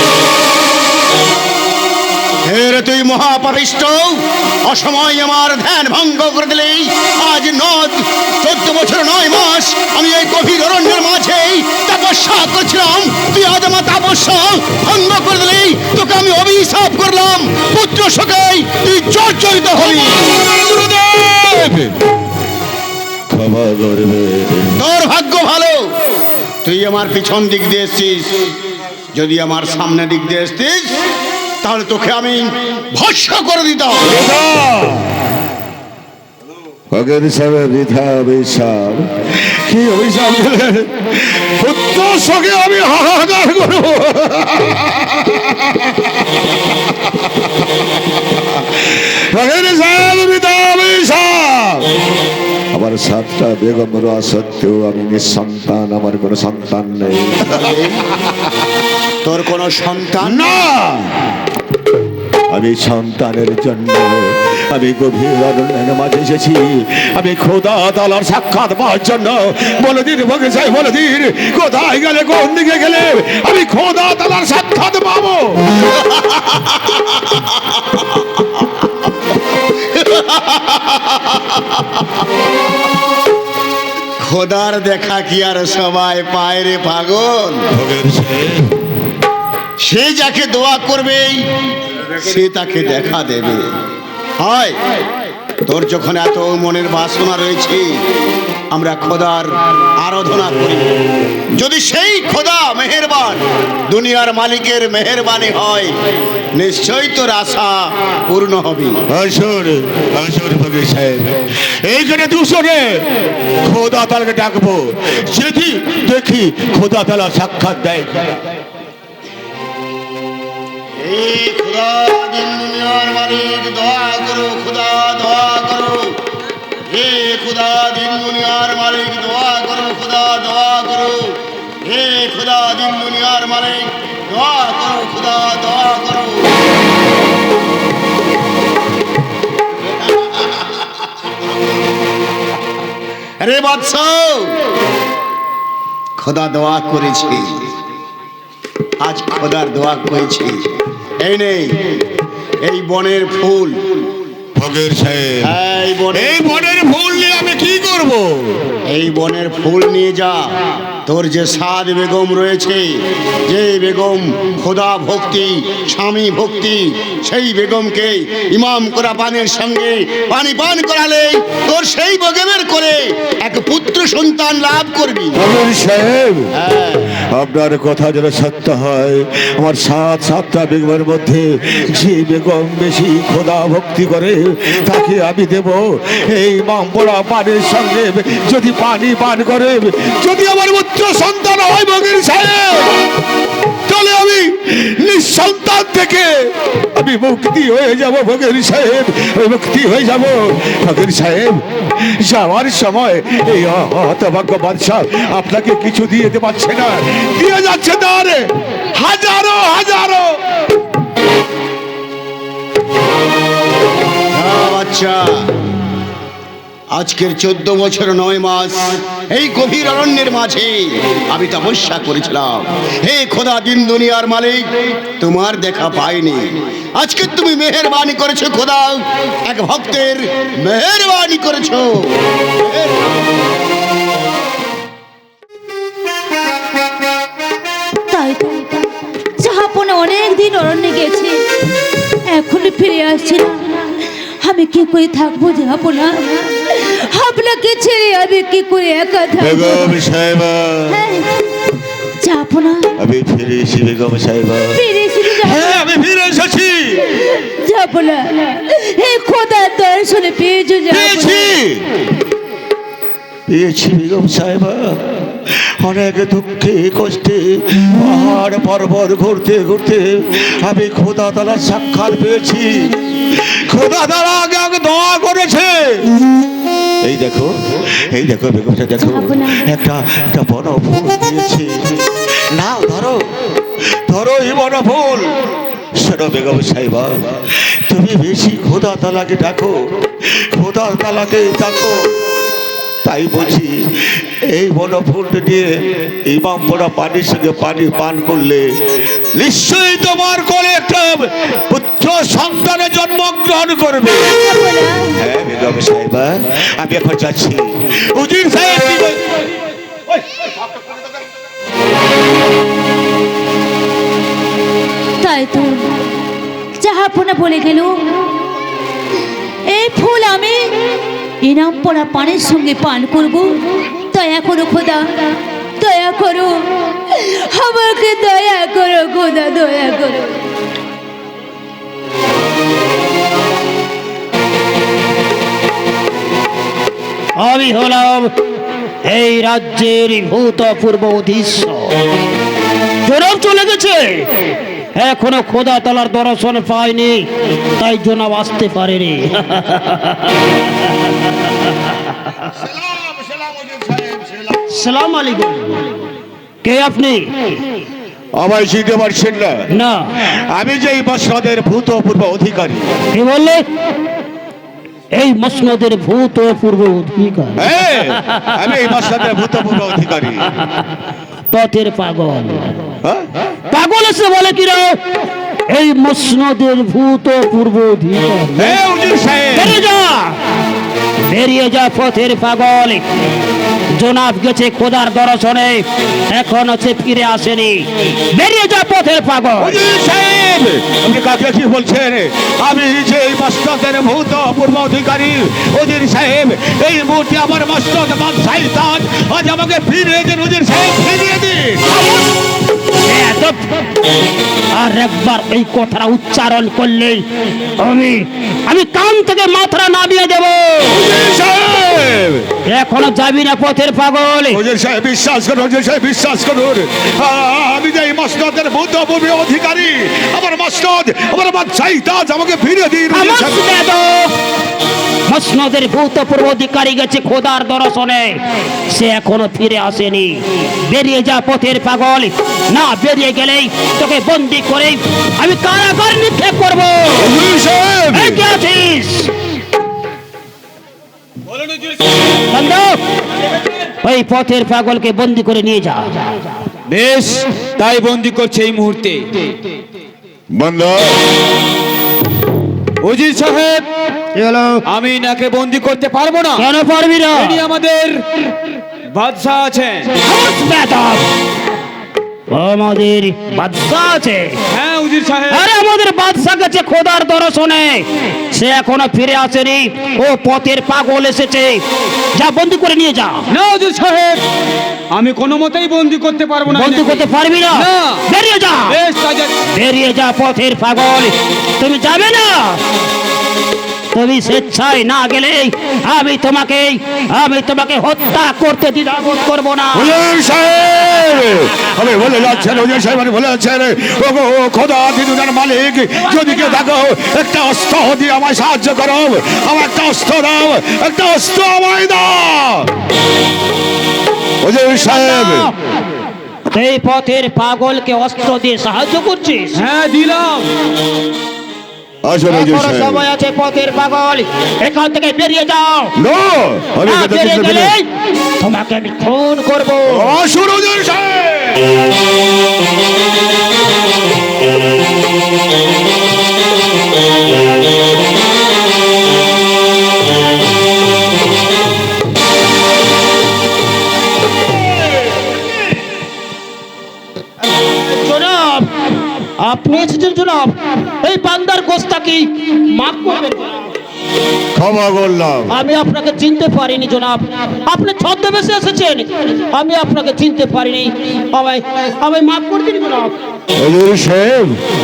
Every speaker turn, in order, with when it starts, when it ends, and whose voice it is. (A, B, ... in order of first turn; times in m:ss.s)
0:02.5-0:20.3 A
0:19.8-0:22.0 B
0:23.3-0:24.8 B
0:24.8-0:25.9 A
0:26.6-0:28.4 A
0:29.1-0:31.0 A
0:31.6-0:34.2 A
0:34.0-0:35.2 B
0:36.9-0:46.9 B
0:48.3-0:51.9 B
0:52.7-0:57.7 B
0:57.5-0:58.0 A
0:59.2-1:00.6 A
1:00.2-1:01.3 B
1:02.5-1:15.6 B
1:15.9-1:18.0 A
1:19.9-1:22.0 A
1:24.2-1:27.6 A
1:27.7-1:28.8 B
1:29.8-1:31.5 A
1:32.2-1:33.7 A
1:34.4-1:34.8 A
1:35.6-1:38.0 A
1:38.7-1:40.9 A
1:41.6-1:46.0 A
1:46.6-1:49.0 A
1:49.1-1:53.1 B
1:53.6-1:58.4 B
2:01.0-2:06.1 A
2:06.9-2:16.5 A
2:20.0-2:20.8 A
2:23.4-2:24.5 A
2:26.2-2:27.6 A
2:29.0-2:30.6 A
2:31.2-2:32.0 A
2:32.6-2:34.0 A
2:34.6-2:35.5 B
2:35.4-2:36.5 A
2:36.1-2:38.7 B
2:38.9-2:40.5 A
2:41.1-2:55.4 A
2:55.3-2:56.5 B
2:56.6-2:57.1 A
2:57.2-3:13.0 B
3:13.9-3:16.3 B
3:16.9-3:30.4 B
3:34.3-3:35.5 A
3:36.9-3:52.9 A
3:58.1-4:01.4 C
4:02.3-4:10.0 C
4:09.4-4:11.0 B
4:10.9-4:11.3 C
4:12.2-4:12.9 C
4:13.0-4:17.2 B
4:14.7-4:15.8 C
4:17.3-4:21.5 C
4:20.9-4:21.9 B
4:23.5-4:36.1 B
4:37.0-4:45.3 B
4:39.0-4:39.7 C
4:46.0-4:52.1 B
4:53.0-5:04.4 B
5:04.3-5:05.2 C
5:05.1-5:09.4 B
5:10.1-5:10.5 B
5:15.2-5:15.9 C
5:16.8-5:18.0 C
5:19.7-5:20.7 C
5:21.4-5:30.4 C
5:37.4-5:38.4 D
5:39.0-5:42.0 D
5:43.0-5:50.4 D
5:53.1-5:54.5 B
5:54.7-5:55.8 D
5:56.6-5:57.6 D
5:58.4-6:03.0 B
5:59.7-6:00.1 D
6:03.1-6:03.6 D
6:05.2-6:08.6 D
6:07.6-6:10.5 B
6:11.5-6:13.0 D
6:13.0-6:13.5 B
6:13.7-6:15.0 D
6:15.7-6:18.8 D
6:18.6-6:19.8 B
6:19.6-6:20.4 D
6:21.3-6:23.0 D
6:24.0-6:29.8 D
6:29.6-6:42.3 B
6:43.0-6:44.0 D
6:44.7-6:51.0 D
6:50.9-6:52.5 B
6:52.7-6:54.6 D
6:54.5-7:03.6 B
7:03.1-7:04.3 D
7:05.3-7:17.3 D
7:17.2-7:18.4 B
7:18.1-7:19.3 D
7:22.5-7:23.0 D
7:24.0-7:26.2 D
7:26.9-7:29.4 E
7:30.5-7:31.2 B
7:33.0-7:33.8 E
7:34.8-7:36.7 E
7:36.6-7:37.6 D
7:37.3-7:38.2 E
7:39.1-7:40.1 E
7:40.2-7:41.3 D
7:42.5-7:44.6 D
7:44.7-7:45.6 E
7:45.5-7:51.8 D
7:52.4-7:53.5 D
7:53.5-7:54.4 E
7:55.1-7:58.2 E
7:56.7-7:59.0 D
7:58.9-7:59.5 E
7:59.7-8:02.8 D
8:04.1-8:10.1 D
8:09.9-8:22.9 B
8:24.6-8:25.7 B
8:25.0-8:25.8 D
8:26.7-8:29.8 D
8:29.8-8:30.7 E
8:32.2-8:33.2 B
8:32.5-8:36.1 D
8:36.2-8:37.9 B
8:37.1-8:40.3 D
8:40.1-8:41.9 B
8:57.9-8:58.9 D
8:59.6-9:03.8 D
9:04.7-9:05.7 B
9:05.7-9:13.4 D
9:13.7-9:14.8 B